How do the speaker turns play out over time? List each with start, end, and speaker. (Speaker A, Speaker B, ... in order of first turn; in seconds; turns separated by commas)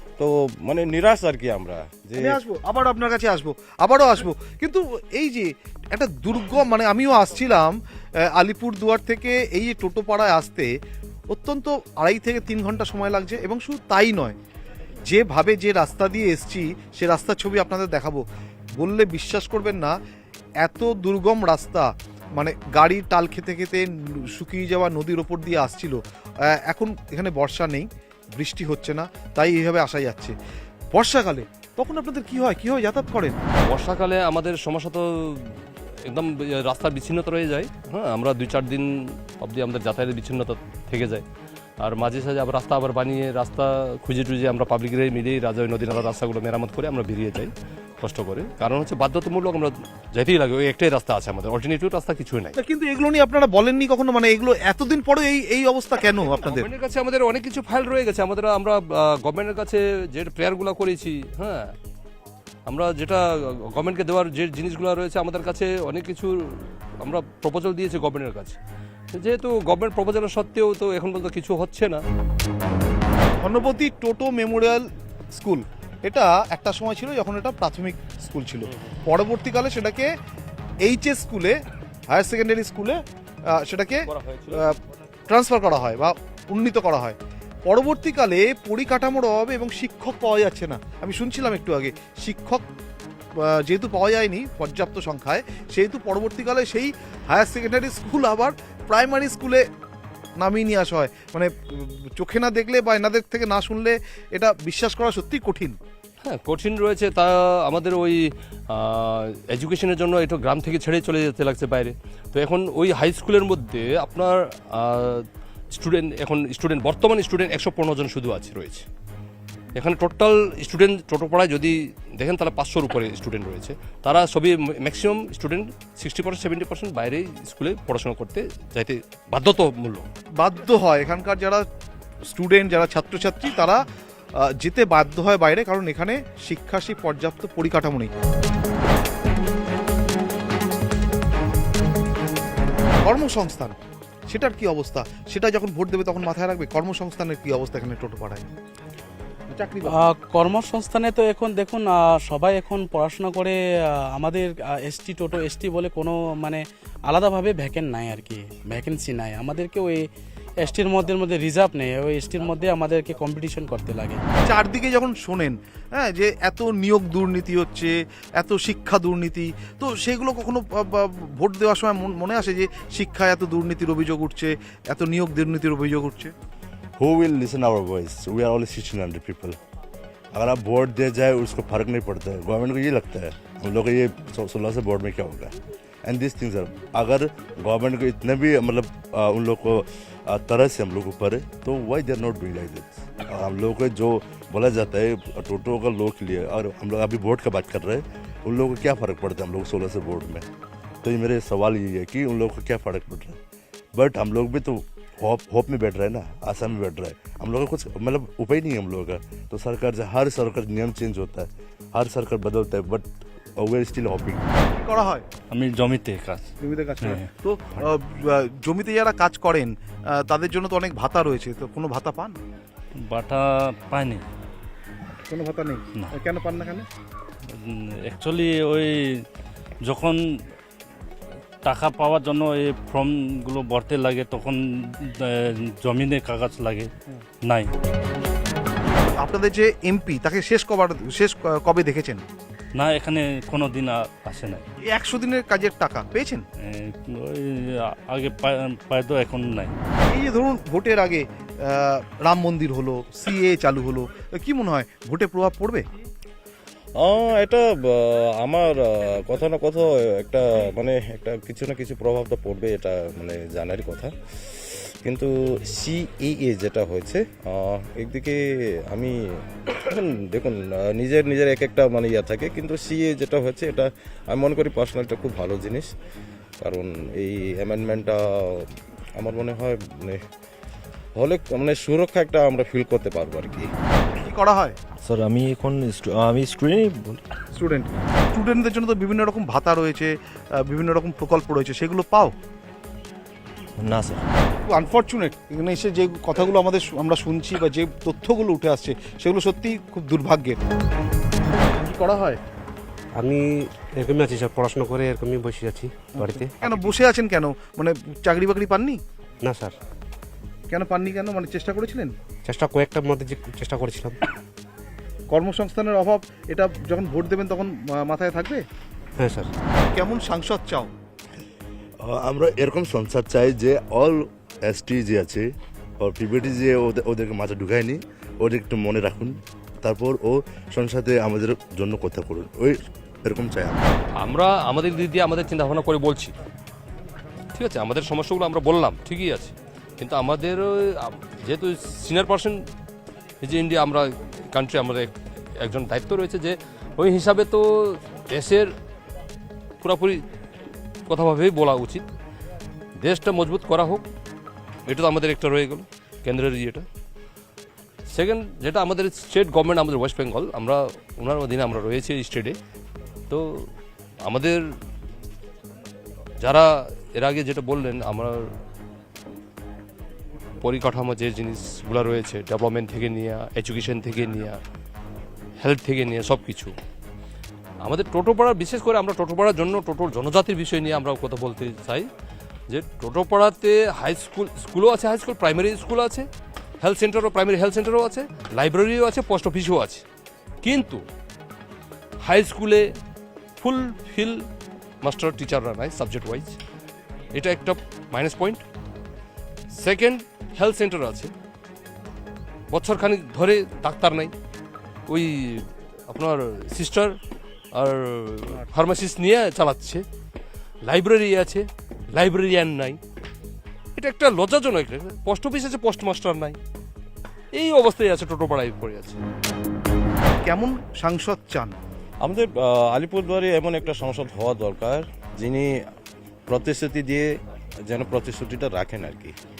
Speaker A: 0.2-2.4, Speaker B: 2.2-10.7, Speaker B: 11.3-14.4, Speaker B: 15.1-18.2, Speaker B: 18.8-19.9, Speaker B: 20.6-26.0, Speaker B: 26.5-30.4, Speaker B: 30.9-33.4, Speaker C: 33.7-41.2, Speaker C: 41.8-52.6, Speaker B: 52.6-56.7, Speaker C: 56.3-61.7, Speaker C: 62.7-68.6, Speaker C: 69.1-72.0, Speaker B: 73.4-80.1, Speaker B: 80.8-84.8, Speaker C: 84.1-84.7, Speaker B: 85.3-92.6, Speaker B: 93.4-99.6, Speaker B: 100.4-105.8, Speaker C: 106.2-118.9, Speaker C: 119.8-130.1, Speaker B: 130.4-131.6, Speaker B: 132.2-133.8, Speaker B: 134.4-138.1, Speaker B: 143.0-143.8, Speaker B: 144.3-148.4, Speaker B: 149.5-150.0, Speaker D: 149.8-153.6, Speaker D: 154.2-160.0, Speaker D: 160.6-164.2, Speaker B: 164.5-176.3, Speaker E: 177.0-179.6, Speaker E: 180.3-185.5, Speaker E: 186.1-200.5, Speaker E: 201.0-203.4, Speaker E: 203.9-213.1, Speaker E: 213.6-214.4, Speaker B: 214.7-215.2, Speaker F: 215.5-216.4, Speaker B: 216.6-222.4, Speaker F: 223.0-224.2, Speaker B: 225.3-226.9, Speaker F: 227.5-229.0, Speaker F: 229.8-230.2, Speaker F: 231.7-236.9, Speaker F: 237.4-237.7, Speaker B: 239.2-242.2, Speaker F: 242.8-244.6, Speaker B: 244.8-246.4, Speaker F: 246.6-249.7, Speaker B: 250.1-255.8, Speaker A: 257.0-275.9, Speaker A: 276.6-280.2, Speaker A: 281.2-283.7, Speaker B: 284.2-284.8, Speaker G: 285.1-287.2, Speaker B: 287.5-292.3, Speaker G: 293.8-294.2, Speaker B: 294.7-300.6, Speaker B: 301.8-302.4, Speaker H: 303.1-306.9, Speaker B: 306.1-309.0, Speaker H: 309.4-309.8, Speaker B: 310.7-312.1, Speaker H: 312.4-314.2, Speaker B: 315.3-318.6, Speaker H: 319.2-319.5, Speaker B: 319.9-320.9, Speaker E: 322.0-325.5, Speaker E: 326.0-333.9, Speaker C: 334.2-336.4, Speaker C: 337.5-342.6, Speaker C: 343.4-348.7, Speaker C: 349.8-350.2, Speaker C: 351.1-352.1, Speaker C: 353.0-354.1, Speaker C: 354.9-356.9, Speaker C: 358.1-362.6, Speaker C: 363.3-363.7, Speaker C: 364.2-364.6, Speaker C: 366.4-368.4, Speaker C: 370.6-374.6, Speaker C: 375.6-376.7, Speaker C: 377.8-382.1, Speaker C: 382.7-386.3, Speaker C: 386.8-390.0, Speaker C: 390.6-391.0, Speaker C: 392.2-392.9, Speaker C: 393.6-394.4, Speaker C: 395.0-396.6, Speaker C: 397.3-398.6, Speaker C: 399.7-401.3, Speaker C: 402.7-404.3, Speaker C: 405.1-407.2, Speaker C: 407.8-410.0, Speaker C: 410.9-413.0, Speaker C: 414.0-416.6, Speaker C: 417.5-419.2, Speaker B: 420.4-421.8, Speaker A: 422.2-425.8, Speaker A: 426.5-427.3, Speaker A: 427.9-429.3